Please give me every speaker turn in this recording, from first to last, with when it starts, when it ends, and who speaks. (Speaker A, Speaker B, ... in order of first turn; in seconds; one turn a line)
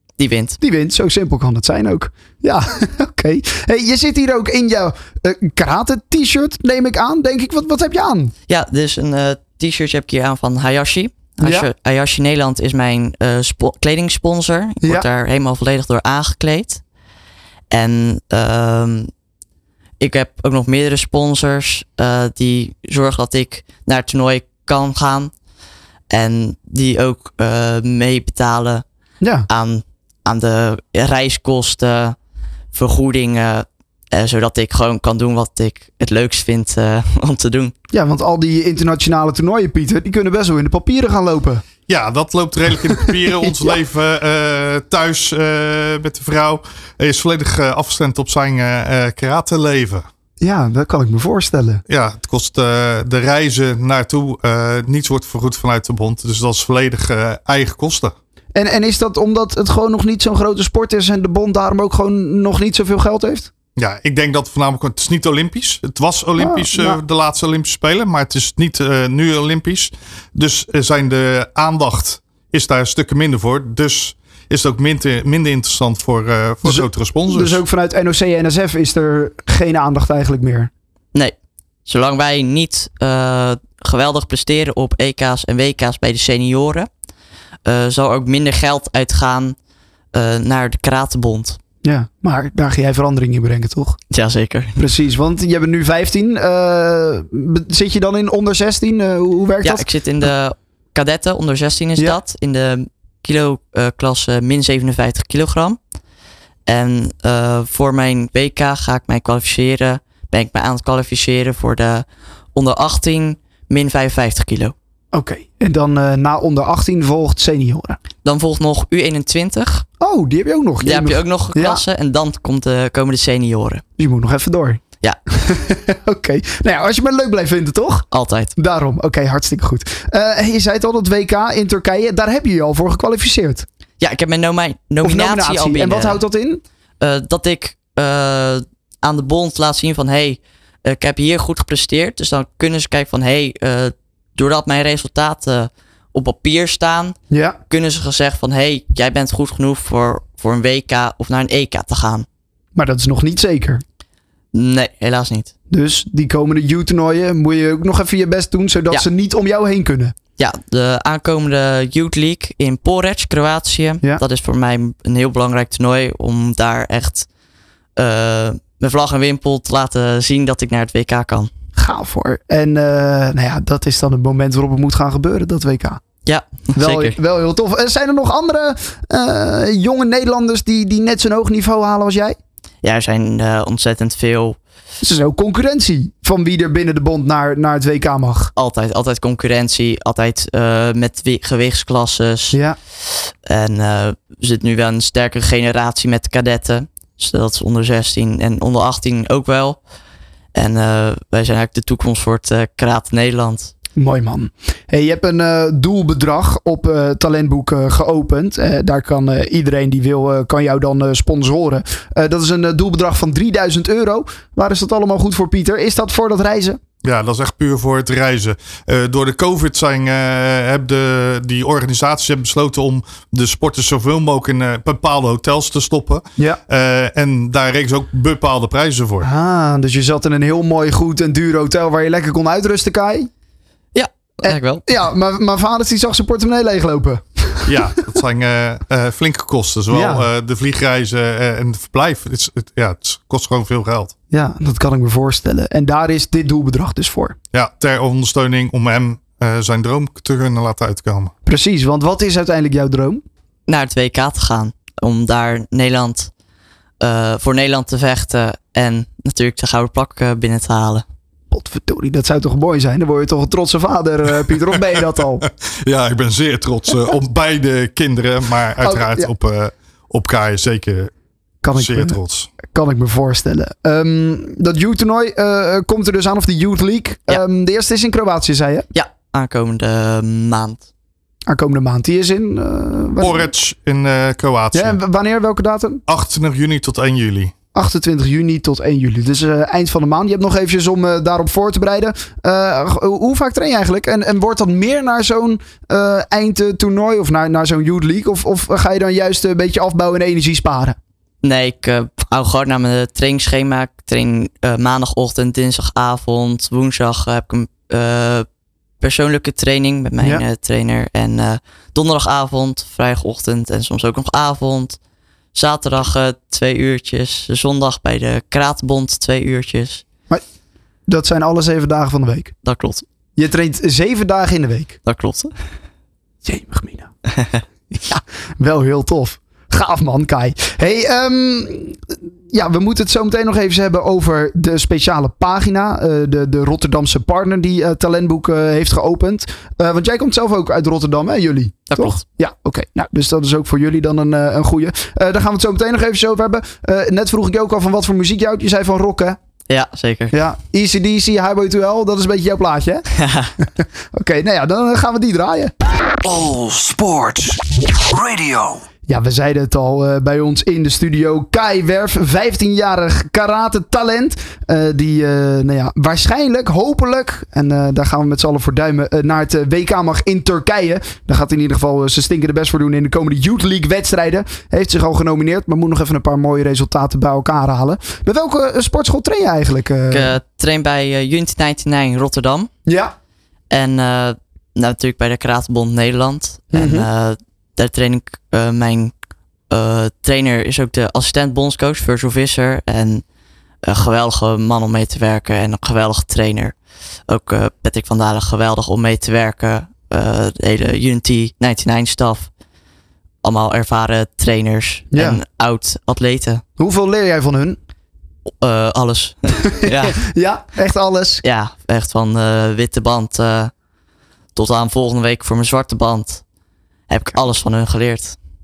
Speaker A: 0.2-0.6
Speaker B: 0.6-8.3
Speaker A: 8.5-16.8
Speaker B: 11.4-11.7
Speaker B: 14.8-15.1
Speaker A: 17.7-19.1
Speaker A: 20.0-25.3
Speaker A: 26.1-28.8
Speaker B: 29.2-29.5
Speaker A: 29.5-32.1
Speaker A: 32.7-37.7
Speaker B: 37.9-41.6
Speaker C: 41.9-50.0
Speaker B: 43.4-43.8
Speaker B: 50.4-51.8
Speaker C: 51.9-58.1
Speaker B: 58.5-63.5
Speaker C: 63.8-77.6
Speaker B: 66.4-67.0
Speaker B: 76.6-80.7
Speaker A: 81.1-86.9
Speaker A: 87.6-89.5
Speaker A: 90.1-91.6
Speaker B: 91.8-94.0
Speaker A: 94.1-94.8
Speaker B: 94.8-99.9
Speaker A: 99.6-105.8
Speaker A: 106.7-114.7
Speaker B: 115.1-118.0
Speaker A: 118.2-119.8
Speaker B: 120.0-121.8
Speaker A: 120.8-123.8
Speaker B: 124.0-124.8
Speaker B: 125.3-133.7
Speaker A: 128.1-128.5
Speaker A: 134.0-136.2
Speaker B: 135.0-136.6
Speaker A: 137.0-147.2
Speaker B: 147.3-147.6
Speaker A: 147.7-152.2
Speaker B: 152.7-153.8
Speaker A: 154.5-155.5
Speaker B: 155.7-160.1
Speaker A: 160.4-167.3
Speaker A: 167.9-171.5
Speaker B: 171.8-176.0
Speaker A: 176.2-177.2
Speaker B: 176.8-182.4
Speaker A: 182.8-184.6
Speaker B: 185.0-188.5
Speaker A: 188.5-199.8
Speaker A: 200.5-203.7
Speaker B: 203.9-216.8
Speaker C: 217.0-229.3
Speaker B: 229.2-233.3
Speaker A: 233.9-234.8
Speaker B: 234.4-237.8
Speaker C: 237.7-244.1
Speaker B: 239.9-240.2
Speaker B: 244.3-247.3
Speaker C: 247.5-251.3
Speaker B: 251.4-253.2
Speaker A: 253.7-256.3
Speaker A: 257.0-261.0
Speaker B: 261.5-265.4
Speaker C: 265.4-271.1
Speaker B: 268.8-269.3
Speaker B: 271.6-278.9
Speaker C: 271.8-272.5
Speaker A: 278.9-280.8
Speaker B: 281.5-283.5
Speaker C: 283.2-285.0
Speaker B: 284.7-286.0
Speaker C: 286.1-287.5
Speaker B: 287.7-300.9
Speaker A: 301.4-308.4
Speaker A: 309.0-315.0
Speaker A: 315.5-320.0
Speaker B: 321.1-322.5
Speaker A: 322.6-323.0
Speaker B: 323.4-325.0
Speaker A: 325.0-325.5
Speaker B: 326.4-327.1
Speaker A: 327.3-327.6
Speaker B: 327.9-349.4
Speaker A: 341.9-342.2
Speaker A: 349.7-350.3
Speaker B: 350.3-353.0
Speaker A: 353.2-353.5
Speaker B: 353.8-355.7
Speaker D: 356.2-358.8
Speaker B: 359.1-380.4
Speaker A: 380.1-382.7
Speaker B: 382.9-383.1
Speaker A: 383.7-389.1
Speaker B: 386.7-387.1
Speaker A: 389.7-393.2
Speaker A: 393.8-396.7
Speaker A: 397.3-402.5
Speaker A: 403.4-406.6
Speaker B: 405.1-405.4
Speaker B: 406.8-407.8
Speaker A: 408.6-410.2
Speaker B: 409.5-411.4
Speaker A: 411.4-413.7
Speaker A: 414.5-416.4
Speaker A: 417.1-418.4